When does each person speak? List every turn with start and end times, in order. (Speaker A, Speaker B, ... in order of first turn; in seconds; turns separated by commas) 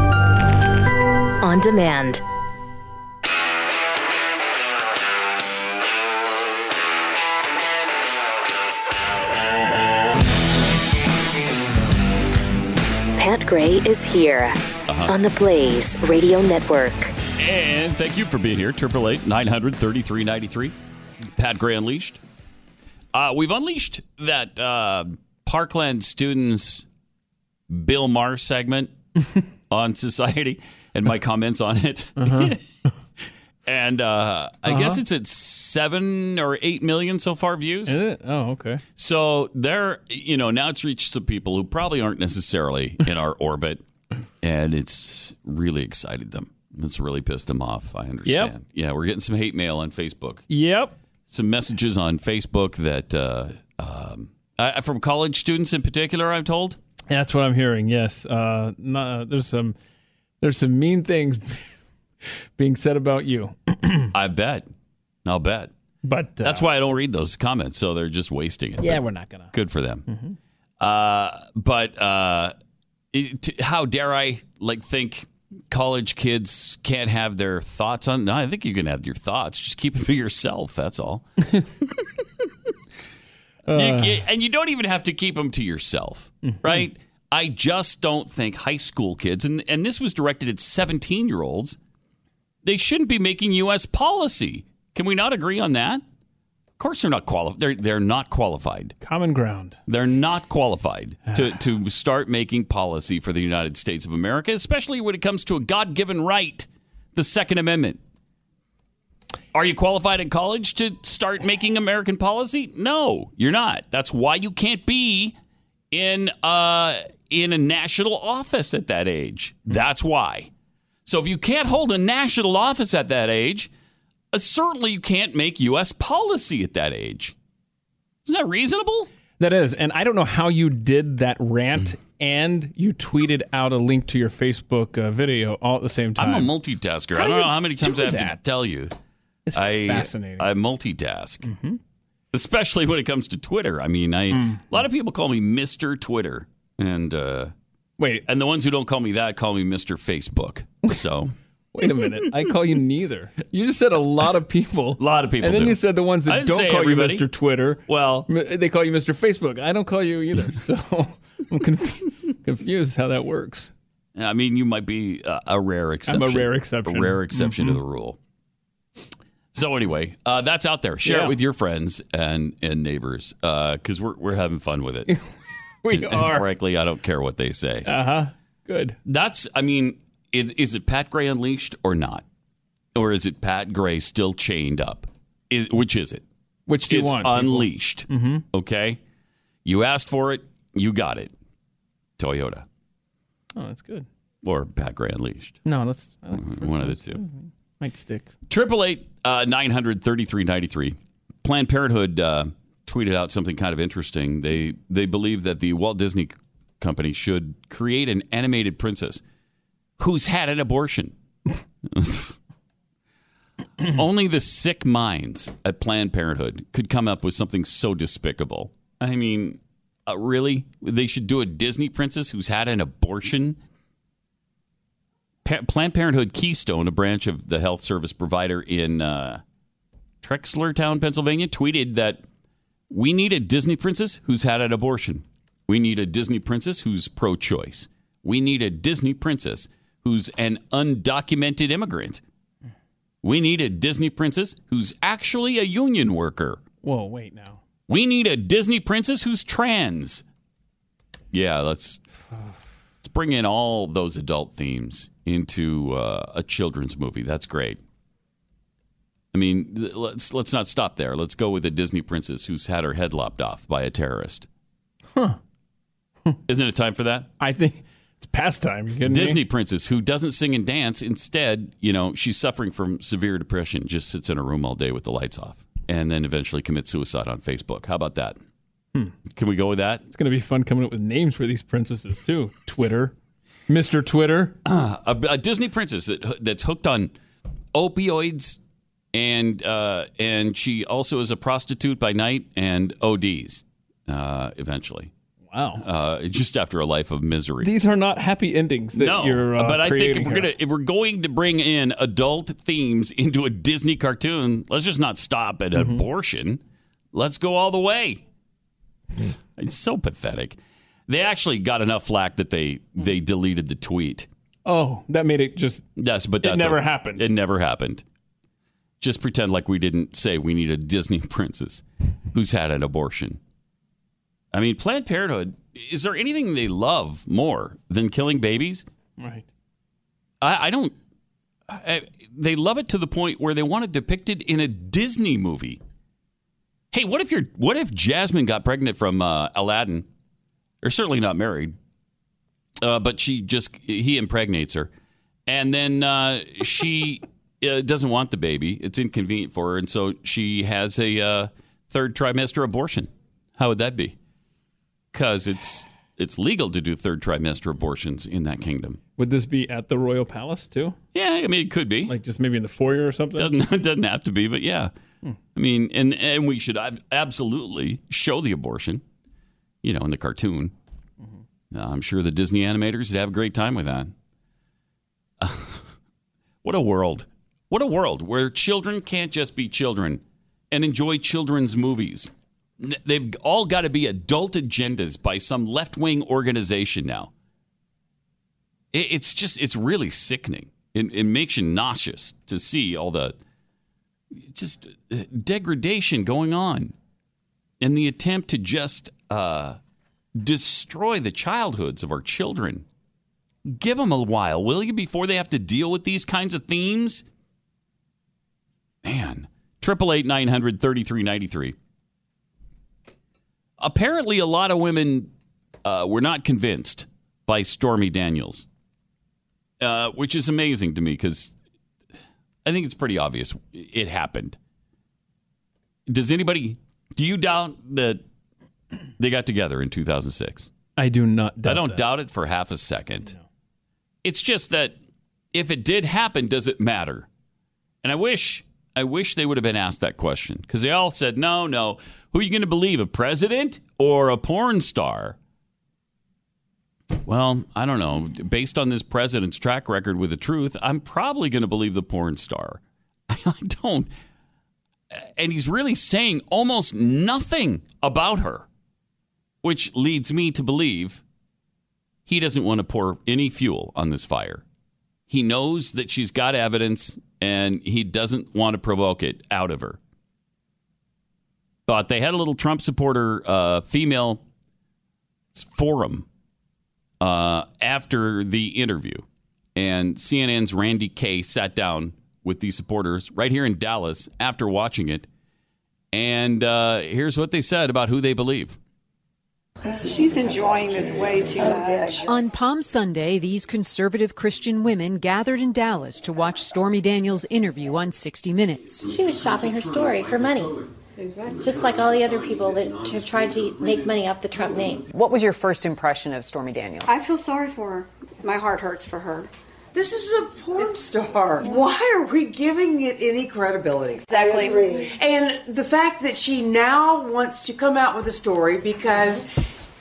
Speaker A: 1.4-2.2, Speaker A: 13.2-17.1, Speaker B: 14.9-15.1, Speaker B: 17.4-20.7, Speaker B: 21.3-22.2, Speaker B: 23.1-26.9, Speaker B: 27.7-28.9, Speaker B: 29.7-32.6, Speaker C: 32.2-32.5, Speaker B: 33.6-38.0, Speaker C: 34.6-35.0, Speaker C: 37.9-38.8, Speaker B: 39.0-43.8, Speaker B: 44.4-50.4, Speaker C: 48.2-48.5, Speaker C: 50.5-51.0, Speaker B: 51.3-56.8, Speaker C: 57.1-59.8, Speaker C: 60.4-61.6, Speaker C: 62.2-64.1, Speaker B: 64.1-64.7, Speaker B: 65.2-65.7, Speaker C: 66.0-66.7, Speaker B: 66.4-70.0, Speaker C: 68.8-69.5, Speaker C: 70.1-70.3, Speaker B: 70.8-72.5, Speaker B: 73.1-81.3, Speaker C: 83.7-84.2, Speaker B: 83.7-91.8, Speaker C: 86.4-86.8, Speaker B: 92.6-96.0, Speaker B: 96.8-98.9, Speaker C: 99.0-99.8, Speaker B: 99.9-108.0, Speaker B: 109.5-115.3, Speaker B: 115.9-120.5, Speaker B: 121.0-123.7, Speaker B: 124.3-127.3, Speaker B: 128.2-129.1, Speaker C: 129.4-136.5, Speaker B: 136.2-138.9, Speaker C: 137.1-138.4, Speaker C: 139.5-140.5, Speaker B: 139.5-141.5, Speaker C: 141.4-141.8, Speaker B: 142.3-147.5, Speaker C: 144.3-144.6, Speaker C: 148.0-148.2, Speaker B: 148.3-151.3, Speaker C: 151.7-163.7, Speaker B: 155.0-157.3, Speaker B: 157.9-158.3, Speaker B: 164.2-168.2, Speaker C: 166.1-167.8, Speaker B: 169.5-175.1, Speaker C: 171.0-171.3, Speaker C: 175.8-176.4, Speaker B: 175.9-177.9, Speaker C: 177.8-179.0, Speaker B: 179.1-182.2, Speaker B: 182.9-186.2, Speaker C: 186.7-188.4, Speaker B: 186.9-189.0, Speaker B: 189.6-191.3, Speaker B: 192.2-192.6, Speaker C: 193.5-194.1, Speaker B: 194.4-195.6, Speaker C: 195.6-198.3, Speaker B: 196.3-197.2, Speaker B: 198.5-209.2, Speaker B: 210.0-211.1, Speaker B: 211.9-212.3, Speaker B: 213.8-223.6, Speaker B: 225.4-229.4, Speaker B: 230.2-232.2, Speaker B: 232.9-242.2, Speaker B: 243.2-246.6, Speaker C: 246.8-247.6, Speaker B: 247.9-250.2, Speaker B: 251.3-252.0, Speaker B: 253.0-257.8, Speaker B: 259.3-264.5, Speaker B: 266.5-267.3, Speaker C: 267.4-269.4, Speaker B: 269.0-278.4, Speaker B: 279.3-280.0, Speaker C: 280.1-283.1, Speaker C: 283.7-284.6, Speaker B: 284.6-287.1, Speaker B: 287.7-288.6, Speaker B: 289.1-295.1, Speaker C: 295.5-295.8, Speaker B: 295.8-297.7, Speaker C: 297.6-300.5, Speaker B: 298.9-306.6, Speaker C: 305.7-306.0, Speaker B: 307.1-308.2, Speaker B: 309.2-310.6, Speaker B: 311.1-314.3, Speaker C: 314.6-315.9, Speaker B: 316.0-318.0, Speaker C: 316.4-317.2, Speaker B: 319.0-323.4, Speaker B: 324.5-328.9, Speaker C: 329.2-329.4, Speaker B: 330.4-330.9, Speaker B: 331.7-335.8, Speaker B: 336.9-340.1, Speaker B: 340.8-341.7, Speaker B: 342.8-344.9, Speaker B: 345.5-354.1, Speaker B: 355.1-359.0, Speaker C: 359.2-360.9, Speaker B: 361.1-362.1, Speaker C: 362.1-363.5, Speaker B: 363.4-364.9, Speaker B: 365.5-369.0, Speaker B: 369.8-370.7, Speaker B: 371.7-374.1, Speaker B: 375.4-375.9, Speaker B: 376.6-387.3, Speaker B: 388.9-393.3, Speaker B: 394.4-396.9, Speaker B: 397.8-399.8, Speaker B: 400.4-402.8, Speaker B: 403.7-407.2, Speaker B: 409.0-411.7, Speaker B: 413.8-415.3, Speaker B: 415.8-418.6, Speaker B: 419.8-421.5, Speaker B: 422.6-424.6, Speaker B: 426.1-428.2, Speaker B: 429.2-430.7, Speaker C: 431.0-432.0, Speaker B: 431.6-433.3, Speaker B: 434.2-435.0, Speaker B: 435.5-437.3, Speaker B: 438.0-445.4, Speaker B: 447.2-454.1, Speaker B: 455.1-458.6, Speaker B: 459.6-461.2, Speaker B: 462.3-464.6, Speaker B: 465.3-470.0, Speaker B: 471.9-474.4, Speaker B: 475.5-476.2, Speaker B: 477.2-479.2, Speaker B: 479.8-485.3, Speaker B: 486.1-488.8, Speaker D: 489.9-492.2, Speaker E: 492.2-499.1, Speaker F: 499.1-500.8, Speaker G: 501.2-501.5, Speaker F: 501.6-505.1, Speaker H: 505.1-507.1, Speaker D: 507.1-509.5, Speaker G: 509.9-519.5